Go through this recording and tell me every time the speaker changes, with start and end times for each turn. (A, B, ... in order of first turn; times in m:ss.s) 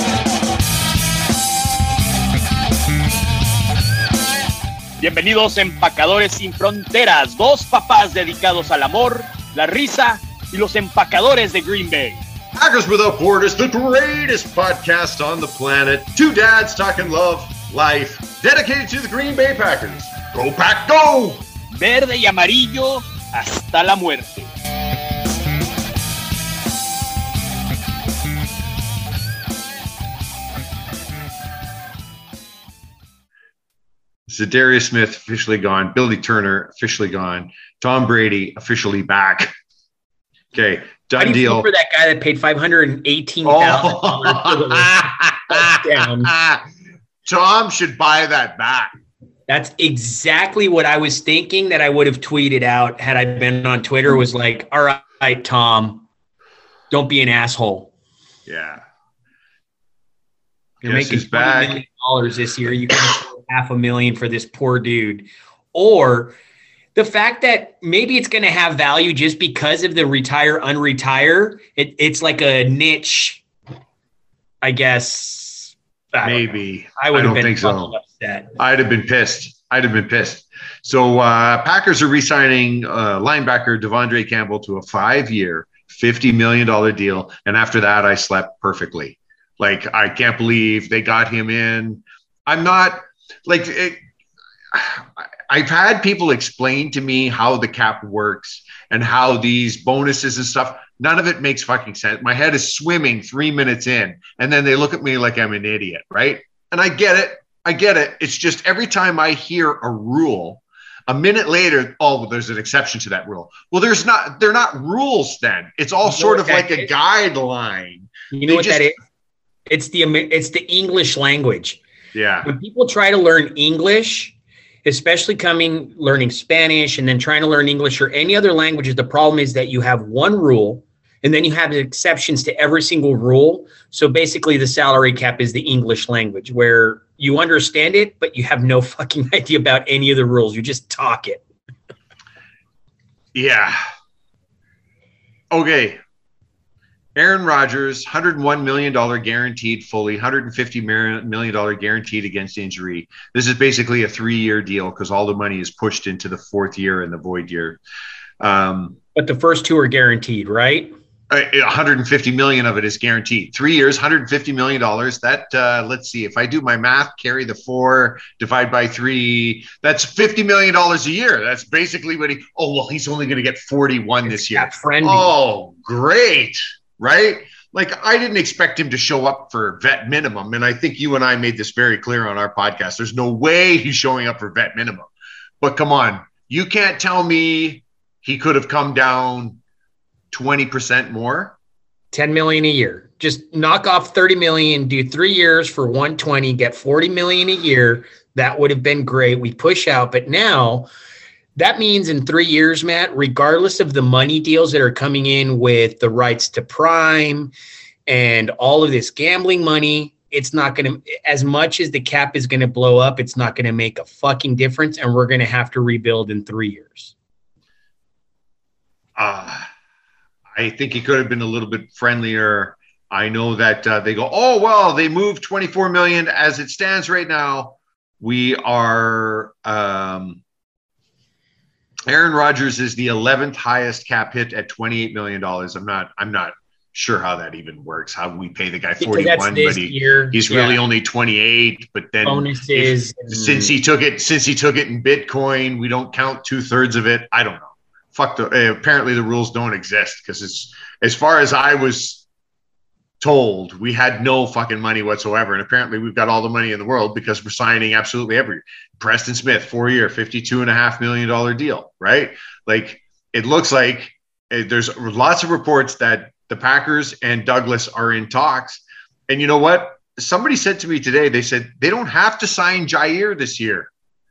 0:05.0-0:12.2 A
0:12.5-0:21.4 B
0:21.7-0:24.5 A
0:34.3-0:39.5 B
0:40.5-0:41.7 B
0:41.2-0:46.3 C
0:43.4-0:46.6 B
0:47.2-0:48.9 B
0:49.5-0:56.0 C
0:56.9-0:57.9 C
0:58.5-0:58.8 B
1:00.8-1:01.8 B
1:00.8-1:06.3 C
1:06.9-1:13.4 C
1:14.6-1:18.5 C
1:16.2-1:18.0 B
1:18.6-1:34.0 B
1:34.7-1:58.9 B
1:56.0-1:56.9 C
1:58.3-1:58.9 C
1:59.7-2:01.8 C
2:02.1-2:02.5 B
2:02.4-2:21.4 C
2:23.3-2:23.8 B
2:25.5-2:26.0 B
2:27.1-2:37.8 B
2:38.4-2:39.0 B
2:39.1-2:40.9 C
2:41.3-3:05.1 B
2:54.2-2:55.3 C
3:05.6-3:09.6 B
3:10.3-3:11.6 B
3:12.1-3:20.9 C
3:21.6-3:27.5 C
3:28.1-3:37.1 C
3:39.2-3:39.7 B
3:40.5-3:50.4 B
3:52.1-4:12.2 B
3:59.0-4:00.8 C
4:02.2-4:03.7 C
4:13.2-4:33.9 B